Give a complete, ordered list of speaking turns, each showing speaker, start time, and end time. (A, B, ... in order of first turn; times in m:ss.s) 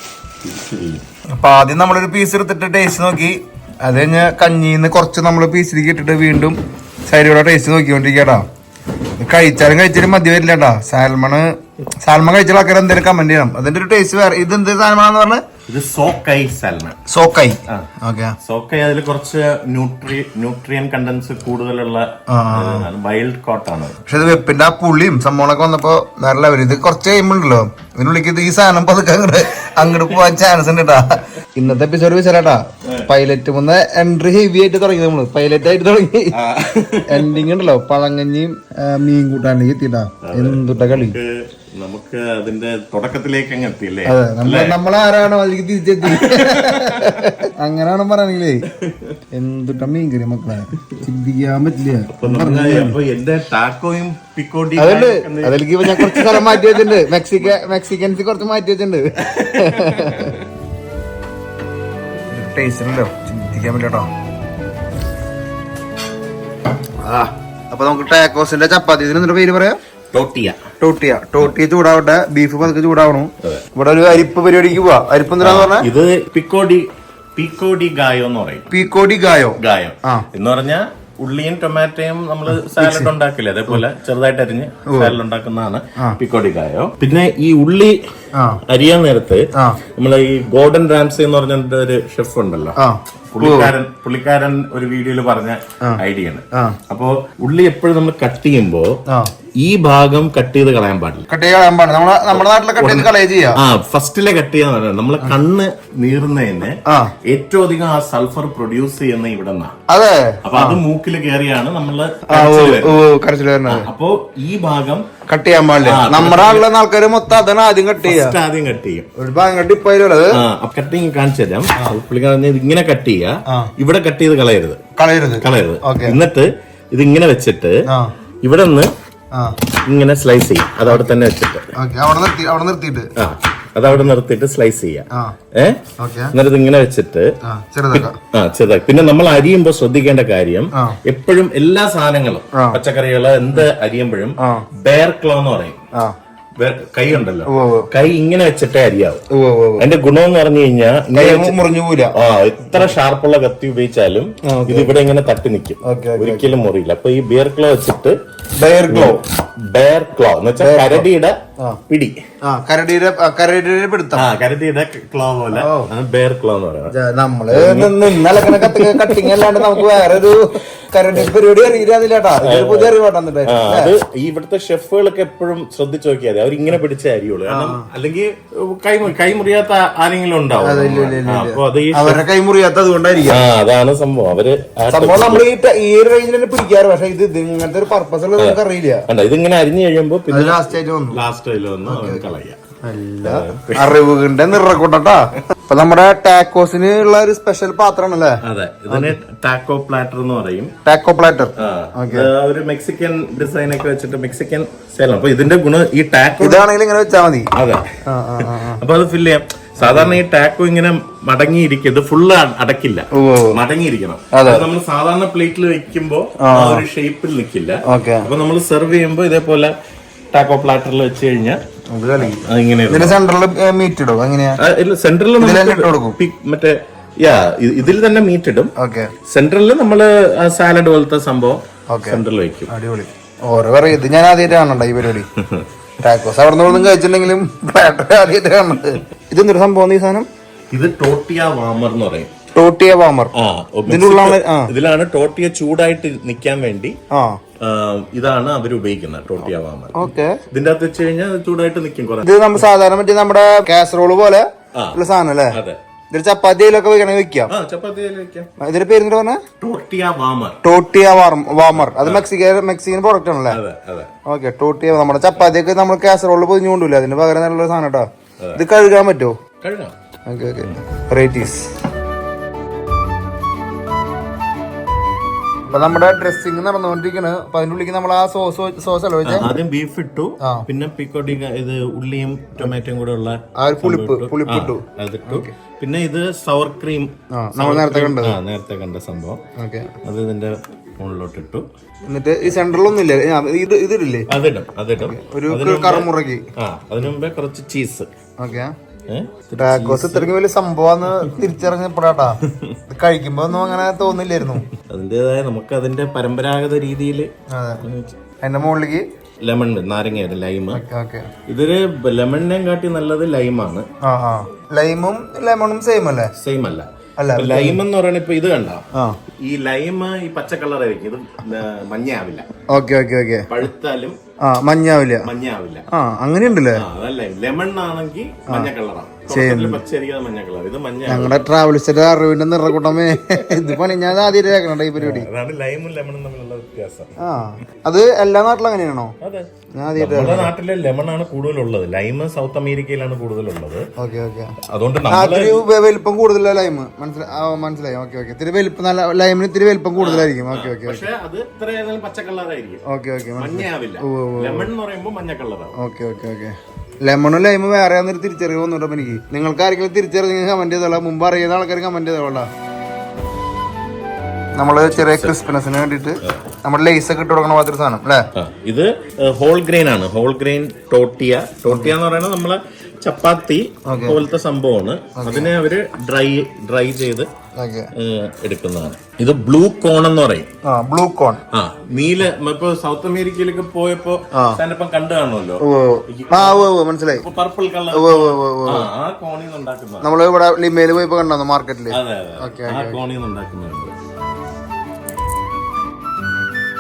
0:00.4-0:01.0 A
0:01.4-0:08.5 B
0:09.2-0:15.4 B
0:15.7-0:17.0 A
0:17.1-0:18.4 B
0:18.4-0:24.0 A
0:22.3-0:22.9 B
0:24.1-0:36.4 B
0:36.3-0:37.4 A
0:37.1-0:41.2 B
0:40.2-0:44.8 A
0:44.1-0:48.7 B
0:46.0-0:47.4 A
0:48.7-0:49.2 A
0:49.3-0:53.0 B
0:52.1-0:57.6 A
0:54.8-1:00.4 B
0:59.2-1:00.5 A
1:02.3-1:04.1 B
1:07.0-1:09.8 B
1:10.1-1:10.6 A
1:10.8-1:15.9 B
1:15.4-1:18.7 A
1:18.7-1:20.3 B
1:19.6-1:28.0 A
1:22.6-1:23.1 B
1:24.9-1:25.2 B
1:28.4-1:28.6 B
1:28.7-1:32.8 A
1:29.5-1:29.8 B
1:32.8-1:33.7 B
1:33.3-1:39.0 A
1:39.6-1:41.3 A
1:41.3-1:43.6 B
1:42.3-1:49.8 A
1:46.9-1:47.1 B
1:49.9-1:50.8 B
1:50.4-1:53.0 A
1:52.3-1:53.9 B
1:53.7-1:55.1 A
1:55.3-1:58.4 B
1:55.8-1:56.7 A
1:58.0-1:59.1 A
1:59.2-2:00.4 B
2:00.3-2:04.8 A
2:05.0-2:06.2 B
2:05.4-2:07.8 A
2:08.4-2:08.9 A
2:09.9-2:11.7 A
2:11.8-2:13.1 B
2:13.2-2:17.4 A
2:16.0-2:16.3 B
2:17.4-2:18.2 B
2:17.9-2:25.8 A
2:20.7-2:21.0 B
2:22.5-2:22.8 B
2:24.4-2:24.7 B
2:26.6-2:29.2 A
2:27.5-2:27.9 B
2:29.3-2:29.8 B
2:29.8-2:31.6 A
2:31.1-2:32.2 B
2:32.1-2:38.2 A
2:34.4-2:35.0 B
2:35.8-2:36.5 B
2:38.6-2:39.2 B
2:38.9-2:41.4 A
2:40.6-2:41.1 B
2:41.9-2:42.2 A
2:42.4-2:44.3 B
2:44.1-2:46.9 A
2:45.5-2:45.9 B
2:46.9-2:53.9 B
2:47.5-2:50.4 A
2:52.4-3:02.2 A
2:57.5-2:57.9 B
3:00.6-3:03.4 B
3:03.3-3:05.5 A
3:04.9-3:09.1 B
3:08.4-3:12.6 A
3:10.3-3:11.2 B
3:11.9-3:12.2 B
3:12.8-3:19.2 B
3:13.2-3:14.0 A
3:18.4-3:20.7 A
3:20.8-3:22.3 B
3:21.6-3:26.7 A
3:26.4-3:27.5 B
3:27.5-3:39.7 A
3:28.0-3:28.8 B
3:29.8-3:30.2 B
3:33.1-3:33.6 B
3:34.3-3:34.7 B
3:36.4-3:36.8 B
3:37.9-3:38.3 B
3:40.3-3:41.6 A
3:41.9-3:44.6 B
3:42.2-3:43.2 A
3:44.6-3:48.7 A
3:45.4-3:46.2 B
3:48.8-3:49.1 B
3:49.2-3:52.7 A
3:51.9-3:55.3 B
3:55.3-3:55.7 A
3:56.0-4:00.3 B
4:00.7-4:02.3 A
4:02.5-4:03.3 B
4:03.3-4:07.0 A
4:03.9-4:04.7 B
4:07.1-4:07.4 B
4:07.6-4:12.3 A
4:10.0-4:10.4 B
4:12.2-4:15.6 B
4:14.7-4:15.8 A
4:16.1-4:17.5 B
4:17.5-4:18.5 A
4:18.6-4:19.4 B
4:19.6-4:20.6 A
4:20.6-4:23.6 B
4:21.7-4:22.3 A
4:23.5-4:24.1 A
4:24.3-4:29.4 B
4:29.6-4:30.0 A
4:30.3-4:31.8 B
4:35.7-4:39.6 B
4:39.2-4:49.4 A
4:40.4-4:40.7 B
4:43.6-4:45.5 B
4:47.3-4:48.4 B
4:49.6-4:49.9 B
4:50.0-4:51.7 A
4:52.1-4:54.3 B
4:54.3-4:58.1 A
4:55.0-4:56.5 B
4:58.4-4:58.7 B
4:59.1-5:00.3 A
4:59.6-5:04.7 B
5:02.4-5:02.8 A
5:04.7-5:08.2 A
5:07.5-5:07.8 B
5:08.4-5:09.0 B
5:09.4-5:10.8 A
5:10.7-5:11.3 B
5:11.5-5:13.9 A
5:14.0-5:16.3 B
5:16.4-5:18.9 A
5:17.2-5:17.8 B
5:19.4-5:22.5 A
5:22.7-5:23.5 B
5:23.5-5:24.2 A
5:24.4-5:25.3 B
5:25.2-5:25.8 A
5:25.9-5:26.8 B
5:26.7-5:31.5 A
5:29.3-5:29.8 B
5:31.1-5:35.3 B
5:33.1-5:34.0 A
5:35.0-5:37.1 A
5:37.2-5:39.2 B
5:39.2-5:43.9 A
5:39.8-5:40.5 B
5:44.0-5:44.5 B
5:44.6-5:45.6 A
5:45.1-5:51.0 B
5:50.0-5:52.8 A
5:52.8-5:54.7 B
5:53.4-5:55.8 A
5:55.8-6:02.5 B
6:04.6-6:08.3 B
6:04.7-6:05.4 A
6:08.3-6:17.3 A
6:13.9-6:14.2 B
6:15.2-6:15.5 B
6:17.6-6:17.9 B
6:17.9-6:20.5 A
6:20.6-6:21.4 B
6:21.5-6:30.1 A
6:24.3-6:24.6 B
6:25.6-6:27.2 B
6:27.9-6:28.9 B
6:30.0-6:33.0 B
6:31.9-6:34.0 A